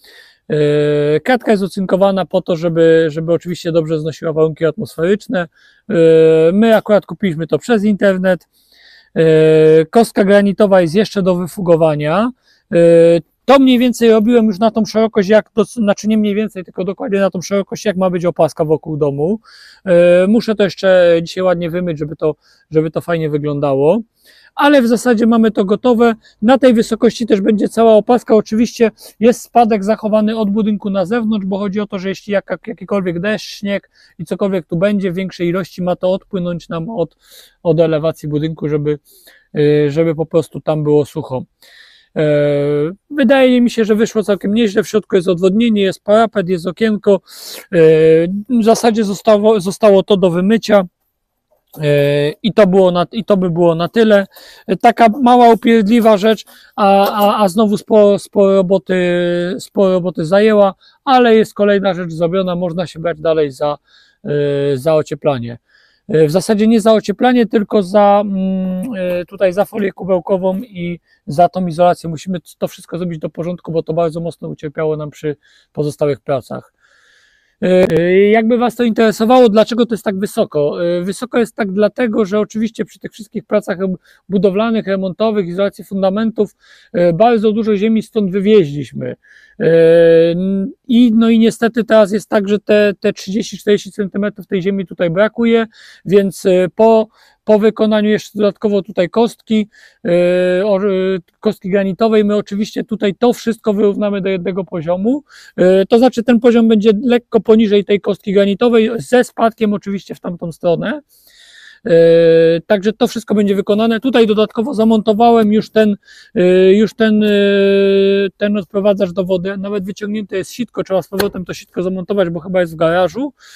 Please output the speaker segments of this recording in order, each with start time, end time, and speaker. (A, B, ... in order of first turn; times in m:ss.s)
0:00.5-0:08.5 A
0:09.2-0:24.0 A
0:24.6-0:39.0 A
0:39.5-0:41.5 A
0:42.2-0:50.9 A
0:51.8-1:16.7 A
1:17.6-1:51.0 A
1:51.8-2:03.3 A